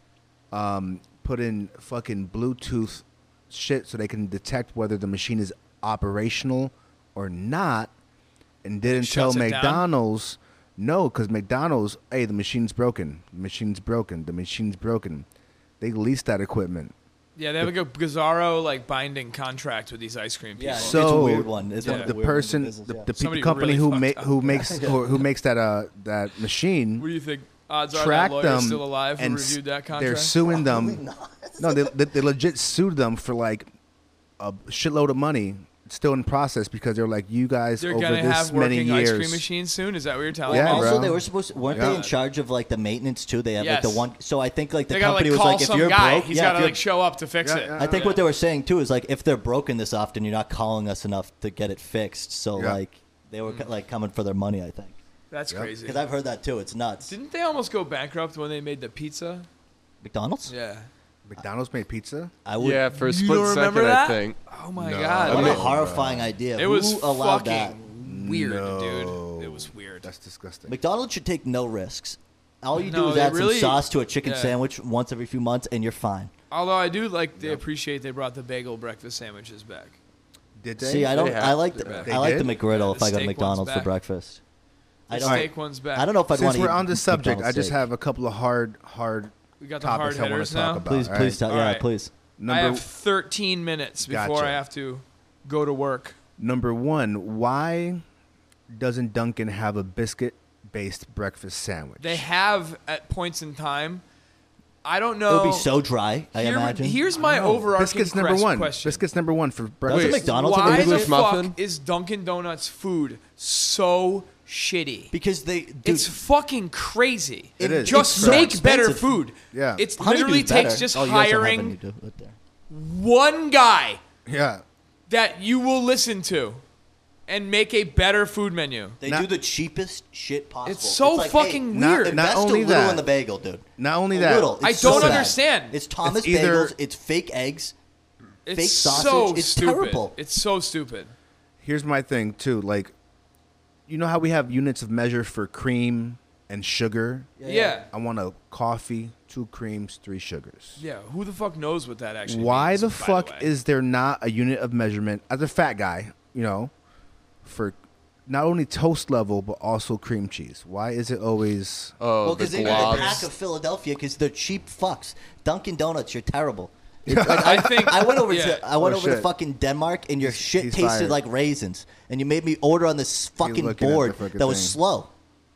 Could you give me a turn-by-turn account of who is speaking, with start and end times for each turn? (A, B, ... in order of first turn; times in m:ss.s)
0:00.5-0:07.9 A
0:08.6-0:15.3 A
0:08.8-0:09.9 B
0:15.8-0:16.9 A
0:17.4-0:21.3 B
0:20.6-0:23.1 C
0:20.8-0:27.1 A
0:21.8-0:22.1 B
0:23.2-0:25.0 B
0:24.5-0:25.2 C
0:27.0-0:30.4 B
0:27.9-0:31.0 A
0:30.4-0:31.9 C
0:31.6-0:33.7 A
0:34.4-0:39.4 A
0:37.8-0:42.2 B
0:40.5-0:46.8 C
0:40.5-0:41.2 A
0:41.7-0:42.0 A
0:43.6-0:44.1 B
0:44.9-0:48.2 B
0:47.4-0:48.1 A
0:47.8-0:55.0 C
0:55.3-0:56.0 B
0:55.8-0:57.1 C
0:57.1-0:59.5 B
1:00.0-1:00.5 C
1:00.5-1:00.9 B
1:01.3-1:02.3 A
1:02.4-1:02.8 C
1:02.6-1:04.4 D
1:02.9-1:05.6 B
1:04.8-1:06.3 A
1:05.3-1:07.8 C
1:05.3-1:05.7 D
1:06.6-1:10.1 B
1:08.0-1:10.8 A
1:10.7-1:16.3 C
1:12.8-1:14.6 B
1:16.5-1:20.0 B
1:17.4-1:17.6 A
1:20.6-1:21.2 A
1:20.8-1:24.4 C
1:21.1-1:21.7 D
1:21.8-1:23.9 B
1:21.9-1:22.6 A
1:25.1-1:27.9 C
1:25.1-1:26.1 B
1:25.2-1:25.5 A
1:26.3-1:31.4 A
1:29.6-1:30.8 B
1:30.8-1:32.1 C
1:31.5-1:31.9 B
1:32.4-1:32.8 A
1:32.5-1:36.2 B
1:34.0-1:34.6 A
1:36.4-1:38.0 A
1:38.7-1:42.2 A
1:42.0-1:44.0 B
1:44.8-1:45.7 B
1:45.3-1:47.0 C
1:46.3-1:49.0 B
1:47.2-1:50.3 A
1:49.9-1:51.1 C
1:49.9-1:51.6 D
1:50.2-1:55.1 B
1:55.1-1:56.1 C
1:55.8-2:01.8 B
1:57.6-1:59.2 C
1:57.6-1:58.6 A
1:59.5-1:59.9 A
2:00.0-2:02.4 C
2:02.7-2:04.0 B
2:04.3-2:04.6 A
2:05.1-2:06.6 B
2:07.3-2:09.0 B
2:09.0-2:17.7 C
2:10.6-2:12.2 B
2:11.7-2:13.0 A
2:13.8-2:15.3 A
2:14.6-2:15.8 B
2:16.0-2:16.7 A
2:18.5-2:21.1 B
2:18.5-2:20.2 C
2:21.6-2:22.9 A
2:23.9-2:27.3 A
2:27.4-2:27.8 C
2:27.4-2:27.9 B
2:27.9-2:30.8 A
2:30.8-2:33.5 B
2:32.3-2:36.7 A
2:37.4-2:37.8 A
2:38.3-2:42.0 A
2:42.0-2:43.2 D
2:42.2-2:55.1 C
2:42.6-2:43.3 B
2:47.1-2:48.1 A
2:47.3-2:48.7 B
2:48.8-2:49.3 A
2:50.2-2:51.2 A
2:53.4-2:54.8 A